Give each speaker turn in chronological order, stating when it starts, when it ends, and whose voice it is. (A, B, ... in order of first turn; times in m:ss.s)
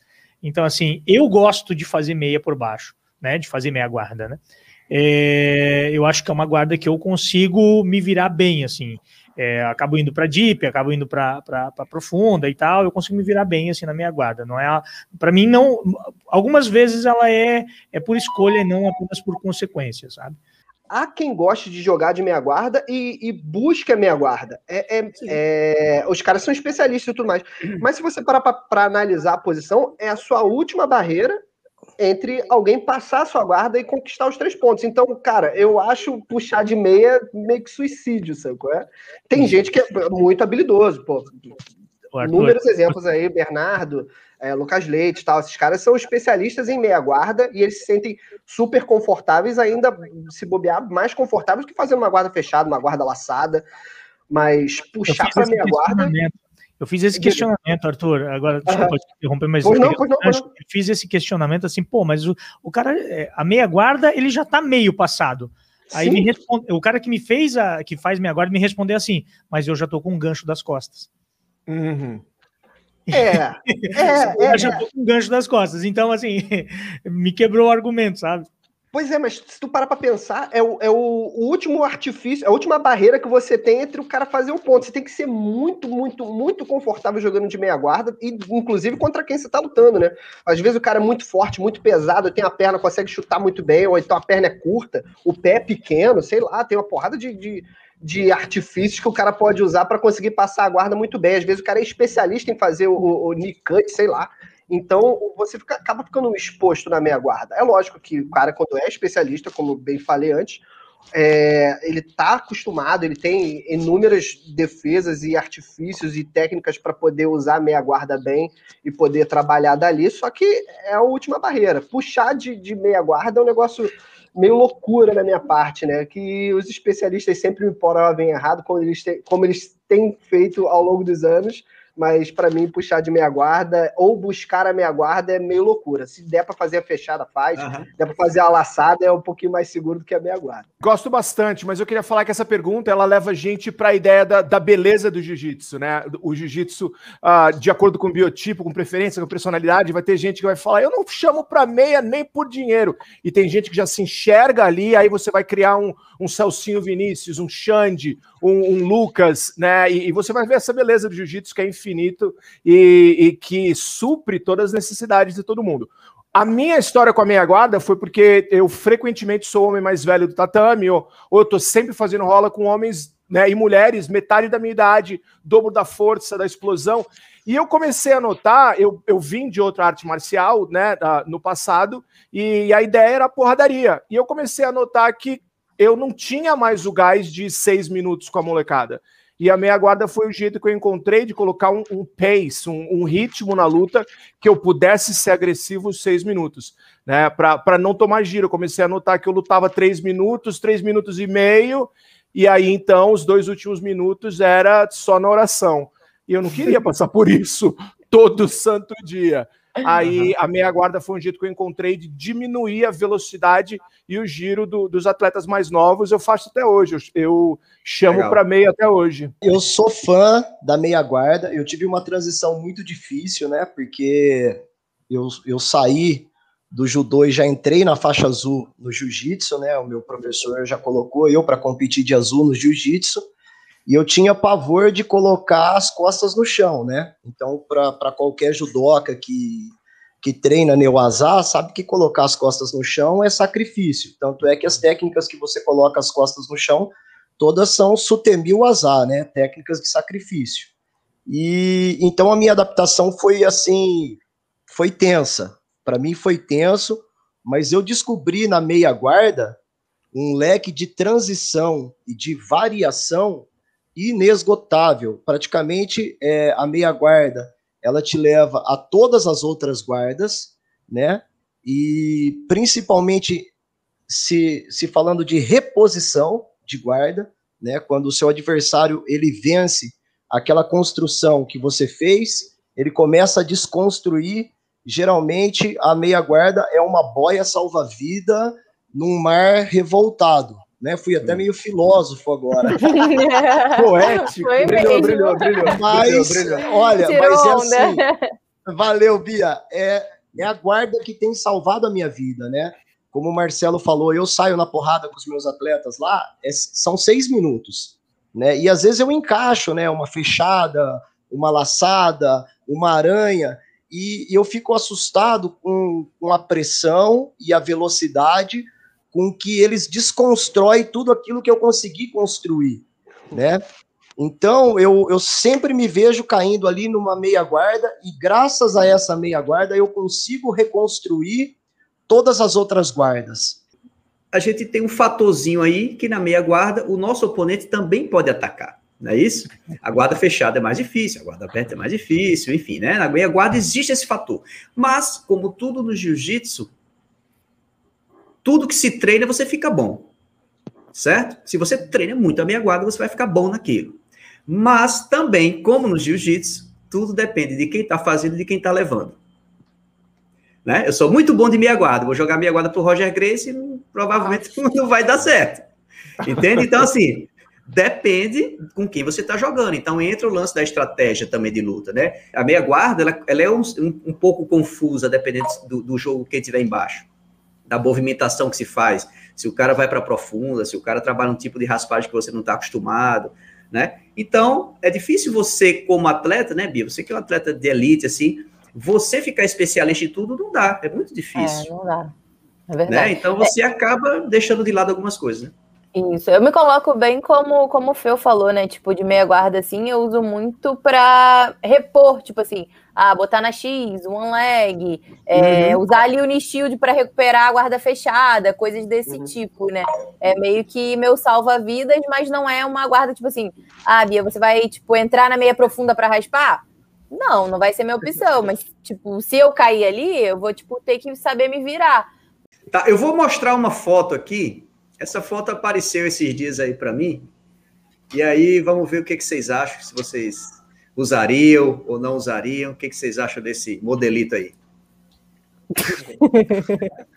0:00.4-0:20.4 A
0:20.9-0:31.4 B
0:32.0-0:41.5 B
0:42.1-0:43.0 A
0:42.2-0:53.7 B
0:54.3-0:56.1 B
0:55.1-1:11.1 A
0:57.2-0:57.4 B
0:58.7-0:58.9 B
0:59.6-1:00.5 B
1:05.9-1:06.3 B
1:11.7-1:12.2 C
1:13.1-1:18.5 A
1:13.1-1:14.8 B
1:18.9-2:20.7 B
2:17.6-2:17.9 D
2:20.8-3:39.3 C
3:30.0-3:30.3 D
3:38.1-3:38.4 D
3:39.4-3:53.2 E
3:53.9-4:10.7 E
4:11.3-4:19.6 E
4:20.1-4:33.5 E
4:34.1-4:53.0 E
4:52.8-4:55.7 F
4:53.7-4:56.5 C
4:55.6-4:58.0 E
4:56.8-4:58.2 F
4:58.7-5:23.6 E
5:24.2-5:31.6 E
5:32.1-5:33.6 E
5:34.3-5:46.7 D
5:48.4-5:50.1 D
5:50.9-5:59.2 D
6:00.6-6:05.7 D
6:06.2-6:17.1 D
6:17.7-6:31.7 D
6:31.4-6:32.1 F
6:32.7-6:33.5 F
6:32.9-6:35.5 D
6:36.0-7:02.1 F
6:45.4-6:45.8 D
7:02.7-7:07.3 D
7:08.1-7:14.6 D
7:16.2-7:16.8 F